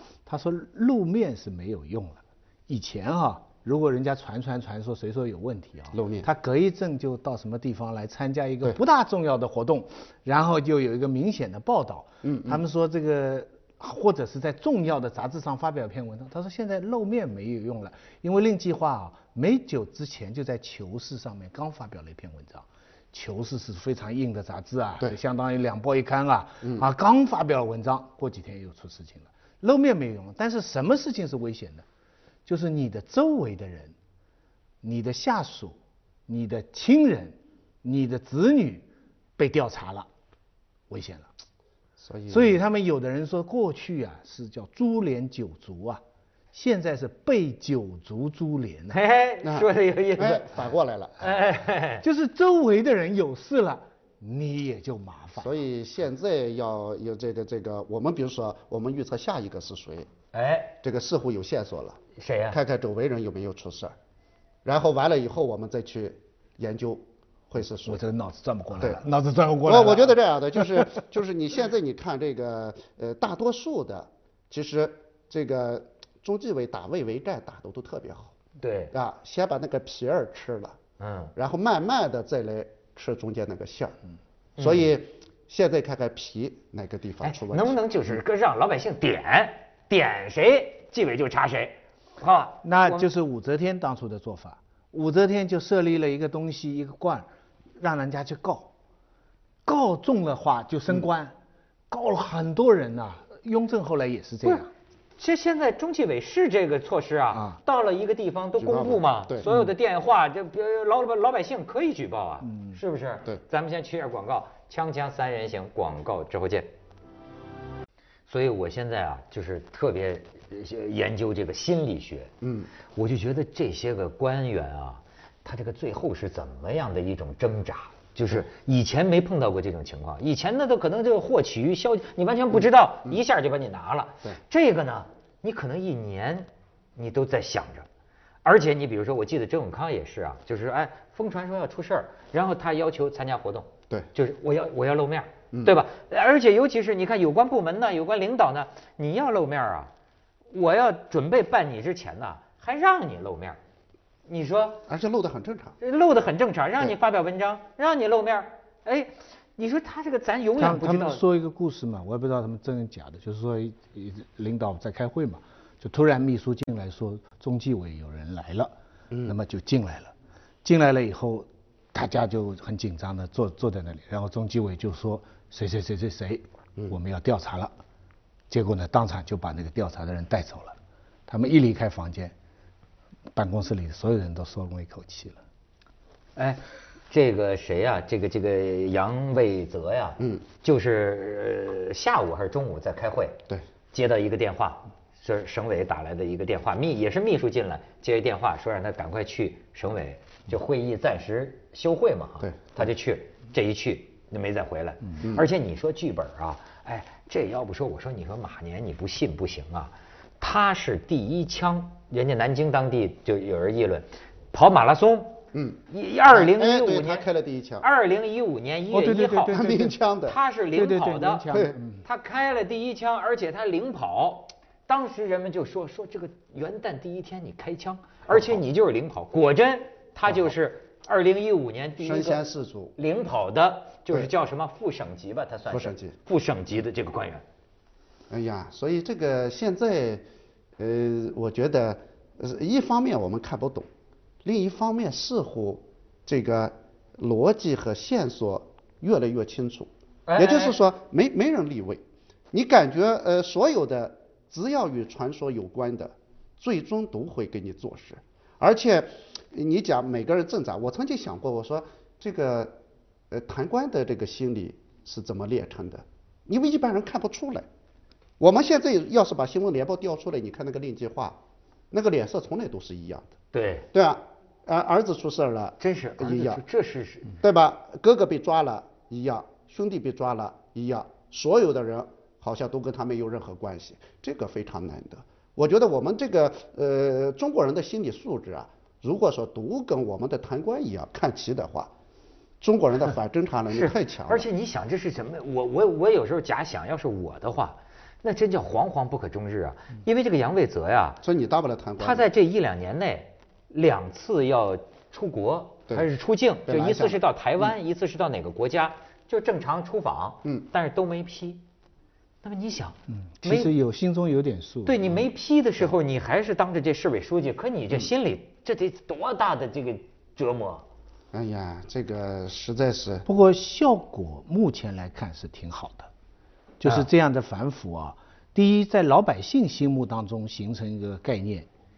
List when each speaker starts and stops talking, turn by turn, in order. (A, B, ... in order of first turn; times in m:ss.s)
0:00.3-0:31.8 A
0:05.9-0:06.3 B
0:12.2-0:12.6 B
0:32.5-0:34.0 A
0:34.8-0:35.8 A
0:36.3-0:38.9 A
0:39.4-0:40.1 A
0:40.9-0:41.3 A
0:42.0-0:42.6 B
0:42.3-0:46.0 A
0:46.5-0:49.0 A
0:48.9-0:50.6 C
0:49.4-0:51.3 B
0:51.2-0:52.0 C
0:52.0-0:55.6 A
0:55.4-1:00.1 B
1:00.3-1:00.8 C
1:00.8-1:04.0 B
1:02.2-1:02.6 C
1:04.6-1:08.0 B
1:07.9-1:11.0 A
1:09.6-1:18.4 B
1:18.6-1:18.9 C
1:18.9-1:20.8 B
1:21.0-1:21.3 C
1:21.4-1:24.0 B
1:24.6-1:24.9 C
1:24.6-1:27.8 B
1:27.2-1:33.1 C
1:32.6-1:38.7 A
1:39.6-1:41.3 A
1:41.9-1:44.7 A
1:45.2-1:56.7 C
1:47.3-1:47.6 A
1:48.6-1:49.5 B
1:52.5-1:52.8 A
1:58.3-2:02.3 C
2:02.4-2:02.7 B
2:03.0-2:17.9 C
2:18.4-2:29.9 C
2:25.5-2:25.8 B
2:30.5-2:33.6 C
2:34.3-2:34.8 C
2:34.9-2:35.8 B
2:35.8-2:41.2 C
2:40.6-2:48.7 A
2:49.2-2:57.7 A
2:58.5-3:00.8 A
3:01.3-3:02.3 A
3:03.4-3:05.4 A
3:06.4-3:13.4 C
3:13.9-3:37.3 C
3:22.4-3:22.9 B
3:35.5-3:37.9 B
3:37.8-3:39.6 C
3:38.9-3:40.0 A
3:39.5-3:40.4 B
3:40.3-3:52.4 C
3:40.7-3:42.0 A
3:50.3-3:50.5 B
3:52.0-3:53.0 B
3:53.0-3:57.4 C
3:55.7-3:56.2 B
3:58.3-4:00.2 B
4:00.8-4:03.9 B
4:04.4-4:22.7 B
4:10.3-4:10.8 C
4:23.3-4:27.7 B
4:28.4-4:31.4 B
4:31.9-4:33.3 B
4:33.5-4:33.9 C
4:33.9-4:36.6 B
4:35.8-4:37.4 C
4:37.4-4:51.9 B
4:52.6-4:54.5 B
4:53.7-5:01.2 C
5:01.2-5:02.3 B
5:02.0-5:11.6 C
5:06.7-5:07.2 B
5:12.4-5:13.7 C
5:13.1-5:15.0 A
5:14.9-5:20.8 C
5:21.3-5:23.2 B
5:23.3-5:26.1 A
5:26.8-5:31.7 A